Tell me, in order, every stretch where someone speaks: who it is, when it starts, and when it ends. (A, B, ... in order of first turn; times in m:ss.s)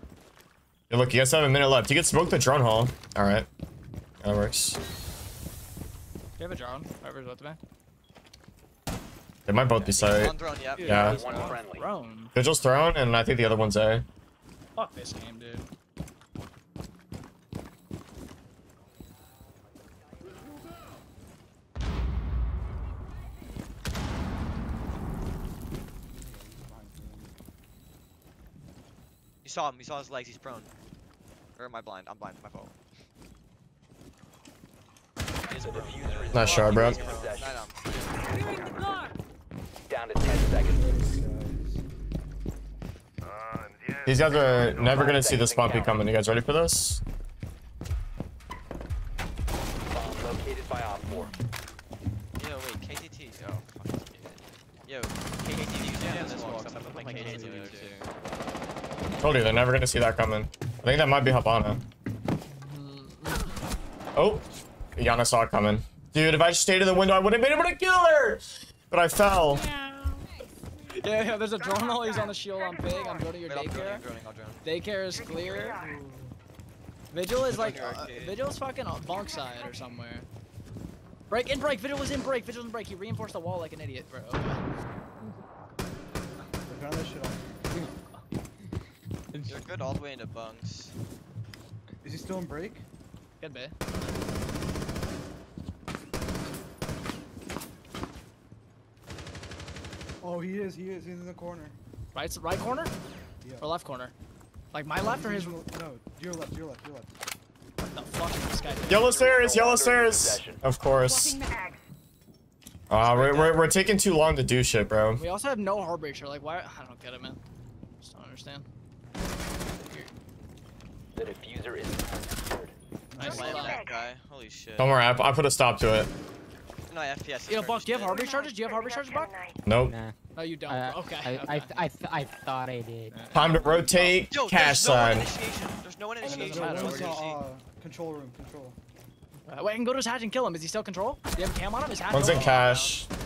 0:00.9-0:03.5 A
0:04.2-0:04.8 A
0:06.4-0:07.6 B
0:09.5-0:11.2 A
0:09.7-0:11.5 C
0:10.8-0:12.3 B
0:10.8-0:11.9 D
0:12.3-0:14.0 A
0:14.7-0:15.7 B
0:26.1-0:27.3 E
0:29.4-0:30.7 C
0:31.6-0:32.7 C
0:35.4-0:38.6 C
0:35.5-0:37.7 D
0:36.3-0:37.0 A
0:38.3-0:39.1 F
0:39.9-0:41.0 D
0:40.8-0:41.8 E
0:44.0-0:47.0 A
0:44.5-0:46.0 D
0:49.9-0:51.3 D
0:52.4-0:58.1 C
0:55.8-0:57.9 B
0:56.0-0:58.0 E
0:59.2-1:01.8 A
1:02.5-1:03.6 B
1:04.1-1:09.6 A
1:10.9-1:14.0 B
1:13.4-1:14.6 C
1:14.6-1:15.8 B
1:15.7-1:16.3 E
1:17.1-1:20.3 B
1:17.4-1:18.4 C
1:19.2-1:19.7 F
1:21.3-1:24.6 B
1:26.7-1:27.5 E
1:29.3-1:29.6 G
1:29.4-1:30.9 C
1:32.0-1:32.8 E
1:33.4-1:33.8 B
1:40.2-1:41.8 E
1:42.1-1:42.9 B
1:43.4-1:43.7 E
1:43.6-1:44.1 B
1:44.7-1:45.6 B
1:45.0-1:47.1 E
1:47.8-1:49.1 B
1:48.9-1:50.6 D
1:48.9-1:51.4 A
1:51.0-1:51.8 F
1:52.9-1:55.2 A
1:53.1-1:53.5 B
1:55.2-1:57.4 B
1:58.0-1:58.7 B
2:01.1-2:02.7 D
2:03.1-2:03.6 E
2:03.2-2:03.8 B
2:03.2-2:05.0 C
2:03.2-2:04.0 F
2:04.8-2:06.1 A
2:06.9-2:08.2 C
2:07.5-2:09.4 B
2:08.1-2:09.6 F
2:09.6-2:09.9 A
2:09.8-2:10.2 G
2:10.3-2:11.8 B
2:10.7-2:13.4 G
2:13.1-2:13.8 B
2:13.3-2:15.3 A
2:13.5-2:13.9 E
2:14.3-2:17.4 C
2:16.2-2:17.3 B
2:16.2-2:18.8 E
2:19.5-2:22.6 B
2:22.1-2:23.1 A
2:22.2-2:23.0 C